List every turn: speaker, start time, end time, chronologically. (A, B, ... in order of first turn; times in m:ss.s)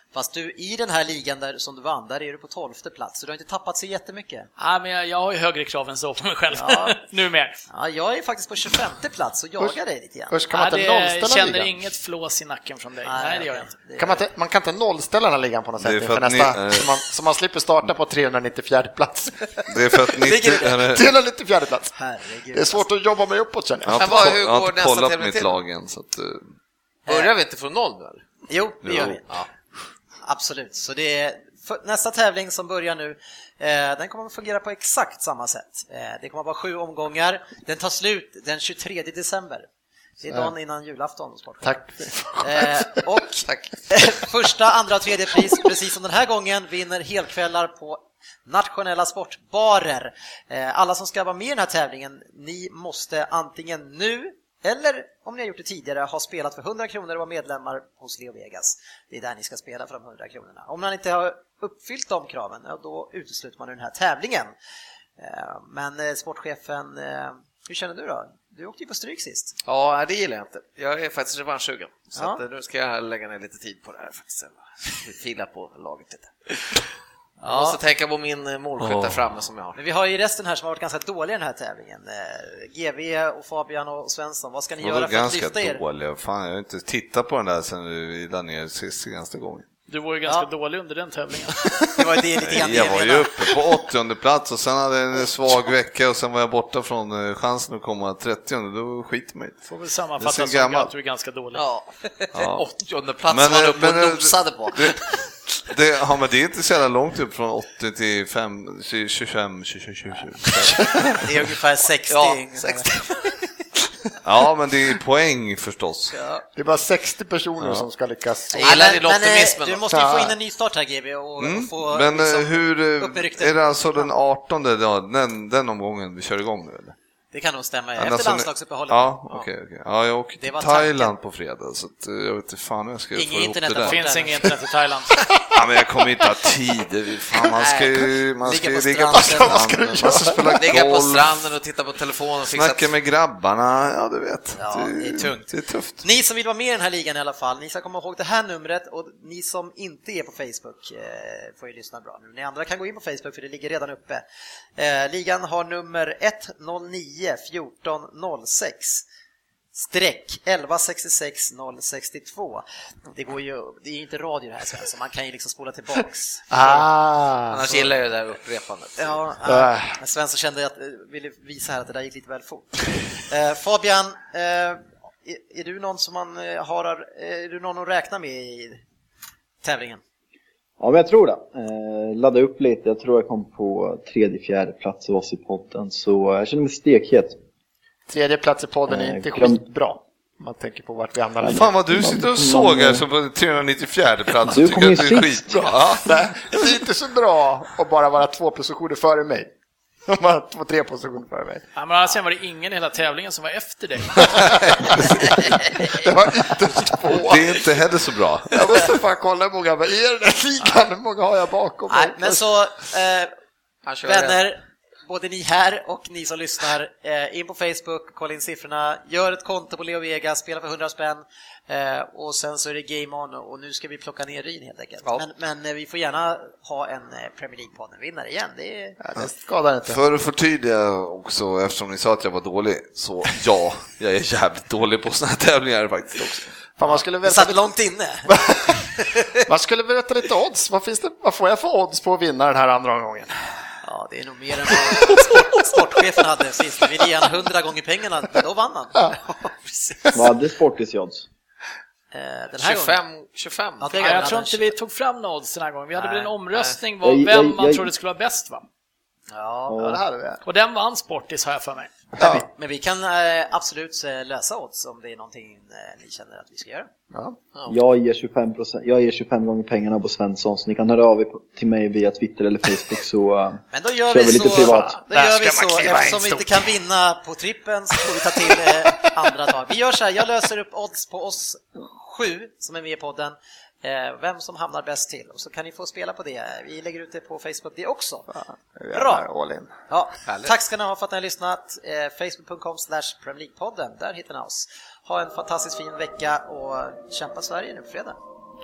0:00.1-0:04.5 A
0:04.6-0:07.6 B
0:06.5-0:07.0 A
0:07.7-0:10.4 A
0:10.3-0:11.7 C
0:10.5-0:13.8 B
0:13.0-0:14.2 A
0:14.0-0:20.2 C
0:15.8-0:17.0 D
0:19.7-0:21.1 D
0:20.2-0:20.8 A
0:20.9-0:22.0 C
0:22.0-0:22.9 A
0:22.5-0:24.4 C
0:23.9-0:26.5 D
0:24.0-0:25.6 E
0:27.1-0:27.3 A
0:27.1-0:28.3 E
0:28.5-0:29.2 A
0:28.8-0:29.2 D
0:30.2-0:39.7 A
0:40.2-1:04.5 A
0:41.6-0:43.0 C
0:43.5-0:43.8 E
1:05.2-1:09.6 A
1:09.6-1:16.8 E
1:12.1-1:12.4 A
1:17.4-1:17.8 A
1:17.4-1:19.8 E
1:18.8-1:19.2 D
1:19.8-1:25.8 A
1:24.8-1:29.7 D
1:29.9-1:31.8 B
1:32.0-1:33.6 A
1:32.4-1:39.6 D
1:39.6-1:41.6 B
1:40.2-1:40.9 D
1:41.6-1:45.3 E
1:42.3-1:42.6 D
1:43.3-1:45.0 D
1:45.6-1:51.2 D
1:51.2-1:52.9 A
1:52.1-1:53.3 E
1:54.2-1:56.1 D
1:56.1-1:56.4 A
1:56.6-1:59.0 C
1:57.6-1:57.9 D
1:58.5-2:04.1 A
1:58.6-1:59.8 E
1:59.9-2:00.4 C
2:01.4-2:07.0 D
2:07.3-2:09.2 A
2:08.0-2:14.0 D
2:10.4-2:11.1 A
2:13.1-2:14.6 A
2:13.8-2:15.2 B
2:15.5-2:21.5 D
2:17.6-2:17.9 E
2:18.4-2:19.6 A
2:19.1-2:20.6 C
2:20.6-2:22.9 E
2:22.5-2:26.0 D
2:24.6-2:34.2 A
2:34.8-2:39.0 A
2:39.7-2:46.8 A
2:46.5-2:47.9 C
2:47.5-2:49.4 E
2:49.0-2:58.8 A
2:49.5-2:50.0 C
2:59.6-3:00.0 A
3:00.8-3:07.4 F
3:08.1-3:11.7 C
3:08.9-3:09.6 F
3:11.4-3:13.0 F
3:11.5-3:16.1 D
3:14.4-3:15.9 F
3:15.9-3:19.5 C
3:20.1-3:21.7 C
3:21.8-3:24.5 B
3:25.9-3:27.6 C
3:27.2-3:28.7 D
3:28.5-3:32.4 C
3:31.9-3:33.3 A
3:33.9-3:34.4 E
3:34.0-3:49.0 A
3:49.0-3:50.0 C
3:49.9-3:56.5 D
3:56.8-3:57.7 C
3:57.2-3:59.4 A
3:58.3-3:58.9 C
3:59.4-4:03.3 C
4:03.8-4:10.1 A
4:04.7-4:05.8 C
4:10.0-4:10.3 C
4:10.1-4:11.3 F
4:12.1-4:13.0 A
4:12.6-4:14.3 E
4:13.8-4:14.7 A
4:14.0-4:18.6 B
4:16.0-4:16.8 E
4:17.0-4:17.9 F
4:19.3-4:19.8 A
4:19.7-4:20.0 F
4:19.7-4:20.4 C
4:20.4-4:22.1 B
4:22.2-4:26.9 A
4:22.2-4:22.4 C
4:27.1-4:27.4 C
4:27.7-4:34.9 F
4:33.7-4:48.3 A
4:34.4-4:36.7 C
4:37.9-4:39.1 C
4:48.3-4:49.7 C
4:48.9-4:49.3 A
4:49.9-4:58.2 A
4:50.3-4:50.5 E